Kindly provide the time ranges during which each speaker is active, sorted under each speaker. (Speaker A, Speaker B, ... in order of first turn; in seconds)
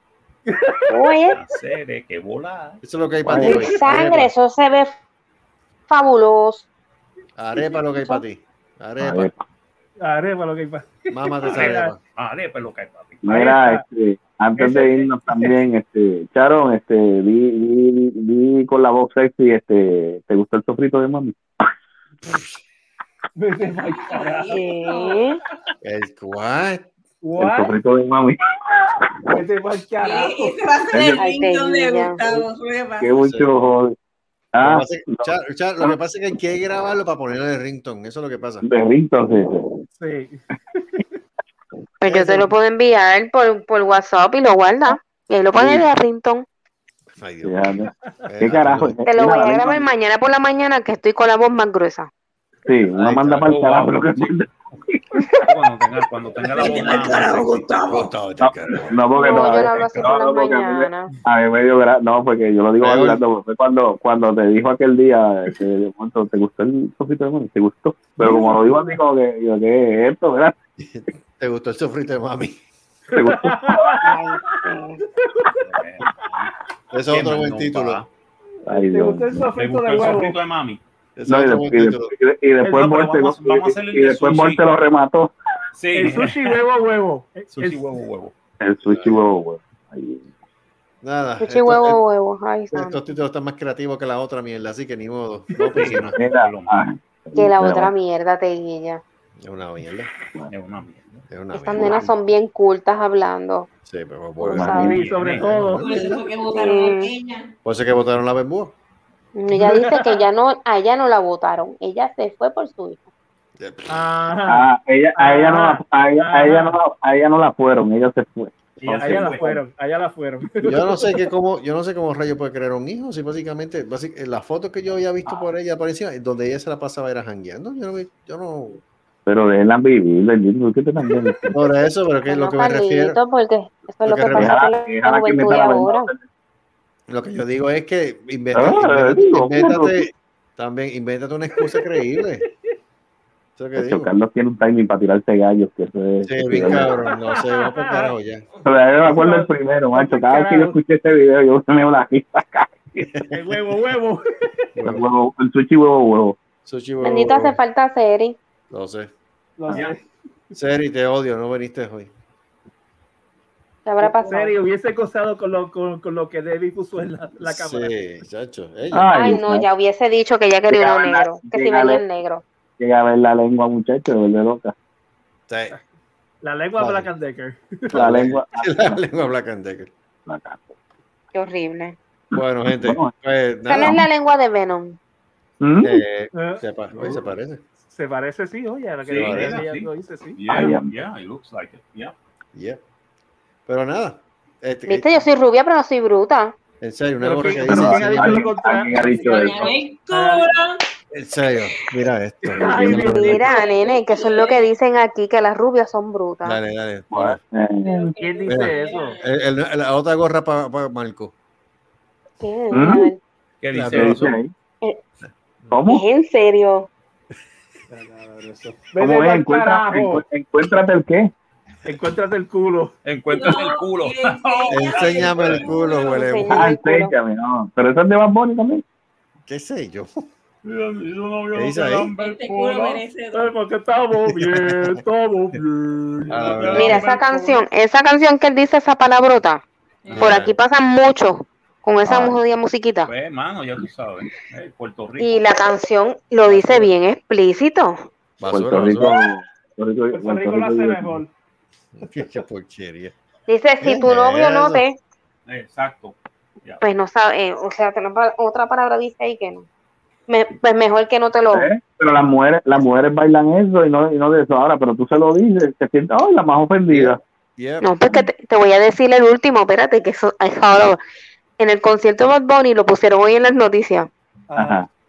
Speaker A: 0.5-1.1, 3.4-3.7, 10.0-11.9, 13.3-13.8, 14.6-15.6, 23.4-24.6, 27.2-27.8, 29.3-30.6, 40.0-41.0, 68.2-68.9, 73.1-74.6, 75.2-75.6, 78.6-80.4, 86.0-87.8, 104.8-106.0, 109.5-110.2, 113.9-116.8, 118.9-121.3, 141.6-142.2, 146.9-148.1, 149.0-150.8, 153.3-154.2, 159.6-160.0, 164.1-167.9, 176.4-178.2, 186.3-186.6, 187.9-190.4, 197.2-200.5, 202.4-203.7, 208.1-209.2, 217.9-220.2, 221.8-222.9, 232.5-237.1, 250.1-251.3, 274.5-274.8
Speaker B: 0.9-1.4, 3.3-5.0, 5.9-6.7, 24.5-25.4, 31.2-32.2, 42.0-46.5, 49.1-52.1, 59.1-61.1, 91.4-93.0, 97.4-99.0, 101.5-103.7, 104.5-104.9, 106.5-107.1, 109.3-113.1, 132.3-136.1, 157.0-158.4, 163.8-164.6, 169.1-172.4, 181.3-182.0, 183.7-185.0, 194.9-196.6, 202.8-206.6, 212.4-213.2, 215.9-216.9, 226.1-227.1, 236.8-239.6, 240.2-243.1, 245.2-248.0, 253.5-255.0, 256.8-259.7, 260.3-261.7, 267.8-271.0, 271.6-274.1
Speaker C: 1.3-2.8, 11.6-13.2, 53.5-54.4, 55.4-57.6, 60.0-60.3, 75.6-76.5, 77.1-78.1, 79.6-80.8, 82.6-84.6, 85.8-86.6, 87.6-88.3, 95.7-96.8, 100.5-101.2, 104.7-106.0, 118.8-119.5, 186.9-187.2, 189.1-192.1, 213.6-214.3, 223.1-225.8, 230.7-232.4, 236.4-237.6, 240.1-240.4, 243.1-245.4, 255.5-256.8
Speaker D: 2.8-4.3, 7.4-9.3, 11.1-12.0, 25.8-26.9, 33.2-33.5, 34.6-38.6, 42.1-42.5, 47.2-49.0, 52.9-53.5, 57.8-59.0, 62.8-63.2, 70.8-72.6, 76.9-78.0, 81.2-82.1, 88.8-89.2, 91.0-92.0, 92.7-96.2, 99.4-100.1, 101.3-102.1, 103.8-106.2, 107.7-108.8, 113.6-114.1, 120.6-128.8, 131.5-133.2, 134.1-134.6, 137.1-142.5, 143.6-144.1, 146.2-148.5, 153.1-153.6, 154.8-155.1, 156.6-157.6, 158.7-159.1, 160.5-162.1, 167.4-169.1, 175.5-175.8, 176.8-177.1, 177.9-179.9, 182.3-184.0, 185.8-187.6, 189.1-189.6, 192.5-192.8, 193.7-195.2, 196.8-198.4, 201.1-203.4, 206.4-207.4, 208.5-211.3, 213.7-214.3, 224.7-226.8, 229.4-230.3, 231.5-232.1, 234.3-235.0, 236.3-237.0, 240.2-240.6, 242.1-242.4, 248.4-249.2, 251.9-253.2, 253.8-254.8, 266.9-268.2
Speaker E: 3.3-3.6, 9.0-9.4, 13.2-21.4, 27.4-29.3, 30.9-31.3, 33.0-34.0, 34.5-35.3, 38.6-39.7, 45.6-45.8, 47.4-49.9, 52.7-55.2, 58.4-70.5, 73.1-74.8, 78.7-79.5, 81.3-85.3, 88.6-90.3, 96.1-97.9, 104.5-104.9, 114.5-119.6, 129.3-131.6, 134.2-136.2, 138.6-140.1, 143.8-146.9, 148.7-153.1, 154.8-156.4, 168.9-169.7, 170.7-172.1, 172.8-174.7, 177.9-179.0, 180.3-180.7, 182.7-183.1, 183.7-184.0, 185.6-186.0, 190.5-190.9, 197.7-199.7, 207.1-208.1, 212.7-213.1, 213.9-214.5, 215.7-216.1, 219.0-221.3, 226.6-228.8, 248.5-251.2, 261.5-267.2, 274.6-274.9
Speaker F: 23.8-25.3, 30.0-33.1, 56.5-58.1, 105.8-107.5, 198.9-200.8, 202.9-204.8, 207.8-209.4, 223.3-226.4, 232.2-233.5, 240.0-240.4